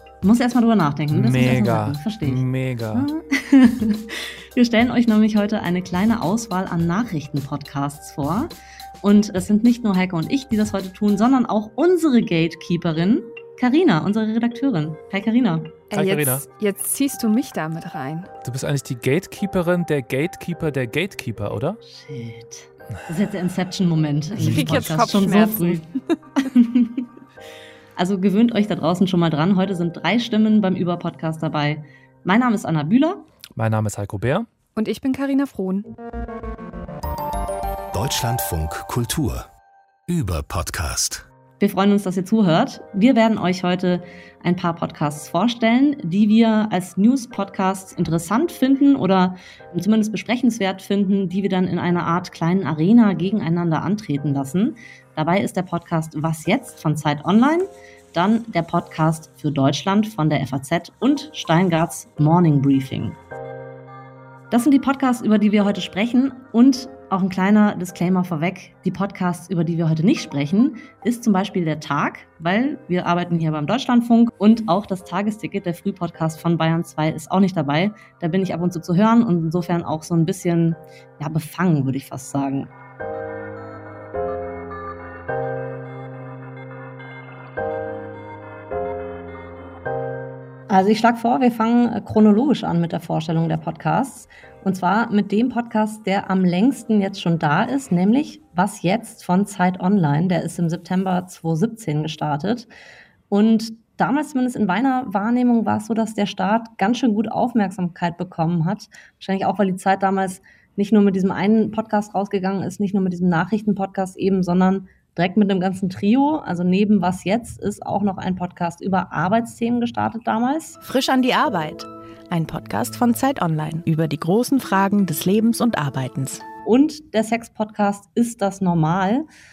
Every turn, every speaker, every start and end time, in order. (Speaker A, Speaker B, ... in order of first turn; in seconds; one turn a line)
Speaker A: 0.2-15.8
Speaker B: 1.1-3.1
Speaker C: 15.9-18.3
Speaker B: 15.9-16.4
Speaker B: 18.4-21.8
Speaker A: 21.8-25.9
Speaker C: 24.4-25.9
Speaker B: 24.4-25.2
Speaker A: 26.4-27.1
Speaker A: 28.0-33.2
Speaker B: 33.5-34.5
Speaker C: 34.8-35.9
Speaker D: 37.9-39.5
Speaker D: 40.1-41.2
Speaker A: 41.6-63.2
Speaker A: 64.5-82.7
Speaker A: 90.7-102.7
Speaker A: 103.3-120.8
Speaker E: 120.8-126.5
Speaker A: 126.7-129.3